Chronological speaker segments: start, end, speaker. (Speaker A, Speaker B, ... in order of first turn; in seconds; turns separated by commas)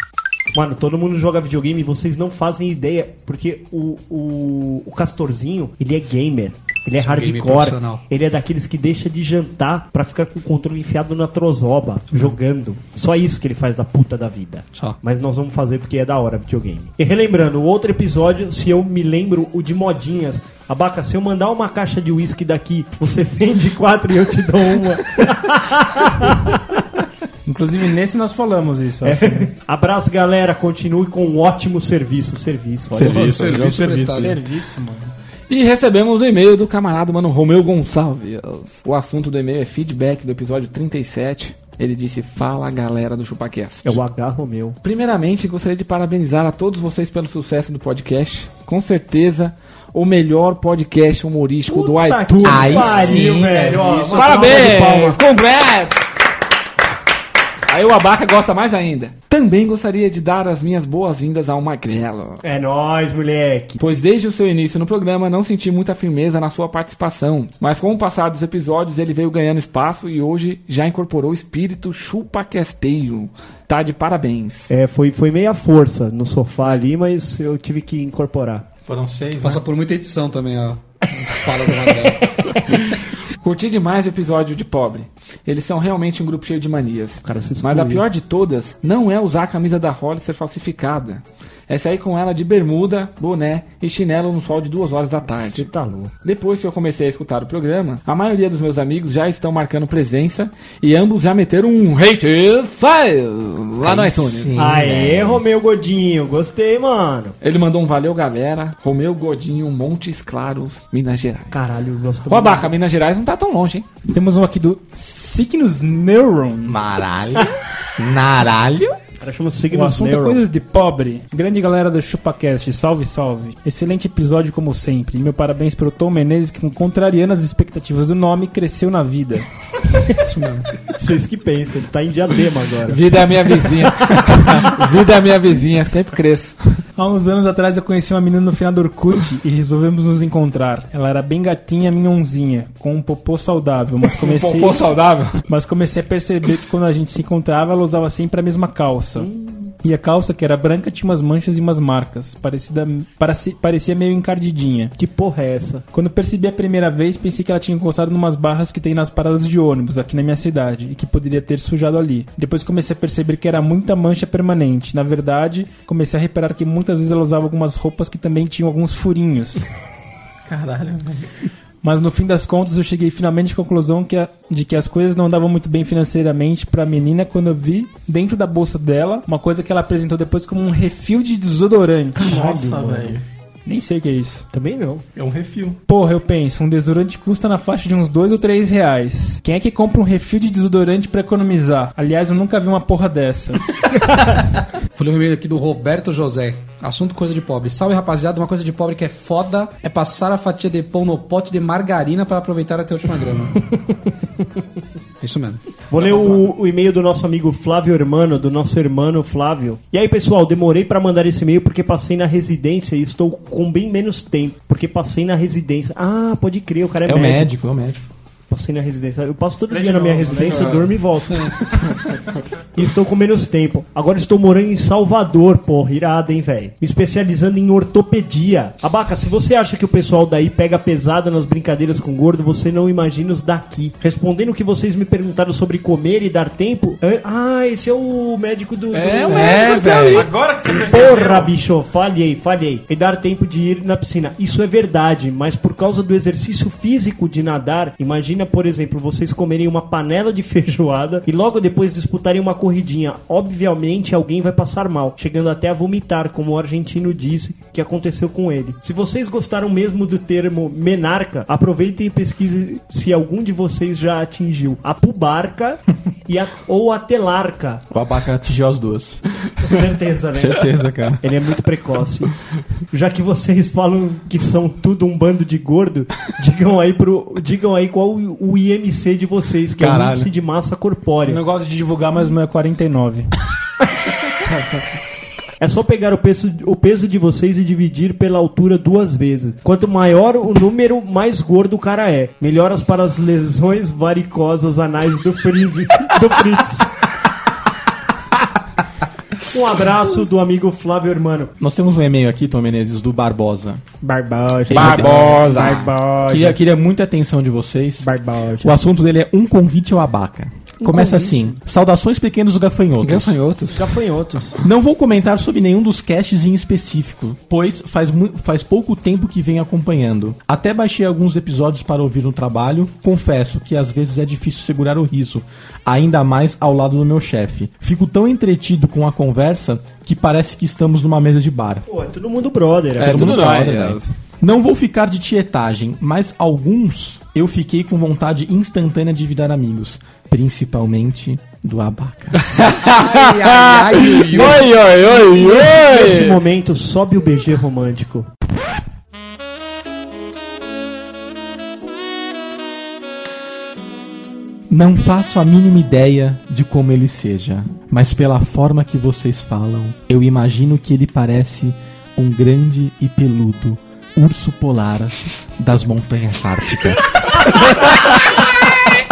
Speaker A: 0.5-26.8, Speaker B: 7.0-8.0, Speaker C: 27.5-29.5, Speaker A: 29.0-33.5, Speaker D: 32.9-34.4, Speaker B: 33.0-34.4, Speaker C: 33.5-35.1, Speaker E: 35.5-44.0, Speaker A: 43.9-44.8, Speaker E: 44.8-53.2, Speaker A: 51.7-55.2, Speaker D: 52.4-54.4, Speaker E: 54.1-56.2, Speaker E: 57.7-62.4, Speaker A: 62.4-63.8, Speaker E: 63.8-74.8, Speaker A: 74.7-78.7, Speaker D: 78.9-79.6, Speaker B: 79.4-82.3, Speaker E: 82.7-95.7, Speaker A: 87.2-88.0, Speaker A: 95.3-96.1, Speaker E: 96.2-104.6, Speaker D: 103.8-105.4, Speaker A: 104.6-107.3, Speaker E: 107.4-111.6, Speaker A: 111.5-112.7, Speaker E: 112.3-113.9, Speaker C: 114.1-116.8, Speaker D: 116.7-119.0, Speaker A: 119.2-120.4, Speaker C: 119.7-129.5, Speaker B: 130.2-130.7, Speaker A: 130.9-133.2, Speaker E: 132.8-136.8, Speaker C: 137.0-144.8, Speaker E: 144.2-145.4, Speaker C: 145.5-149.3, Speaker A: 149.2-149.8, Speaker C: 149.8-154.9, Speaker A: 155.0-155.8, Speaker C: 155.9-169.7, Speaker D: 170.5-171.3, Speaker C: 171.8-182.3, Speaker A: 182.2-183.2, Speaker D: 182.2-183.2, Speaker C: 183.7-184.5, Speaker A: 184.5-185.1, Speaker D: 185.2-185.8, Speaker C: 185.9-193.6, Speaker B: 194.9-203.6, Speaker B: 205.2-205.6, Speaker A: 205.9-217.5, Speaker D: 217.1-218.0, Speaker A: 218.5-221.8, Speaker C: 219.7-220.9, Speaker E: 220.4-220.8, Speaker A: 222.8-239.7, Speaker E: 238.9-240.3, Speaker D: 239.3-240.3, Speaker C: 240.1-241.5, Speaker A: 240.7-267.8, Speaker D: 267.9-269.2, Speaker A: 269.6-272.3, Speaker D: 270.3-271.2, Speaker A: 272.9-281.4, Speaker D: 279.8-280.3, Speaker C: 281.3-283.3, Speaker A: 285.6-296.9, Speaker A: 299.5-301.5, Speaker D: 301.6-303.8, Speaker A: 304.0-306.6, Speaker D: 304.7-305.7, Speaker E: 304.7-305.9, Speaker D: 306.3-313.4, Speaker A: 308.0-308.7, Speaker A: 310.8-311.4, Speaker E: 313.0-314.0, Speaker A: 313.7-314.6, Speaker D: 314.6-331.9, Speaker A: 331.9-333.5, Speaker E: 333.0-334.1, Speaker D: 333.0-342.4, Speaker E: 342.4-346.4, Speaker B: 342.9-344.7, Speaker A: 345.2-348.3, Speaker D: 354.7-368.4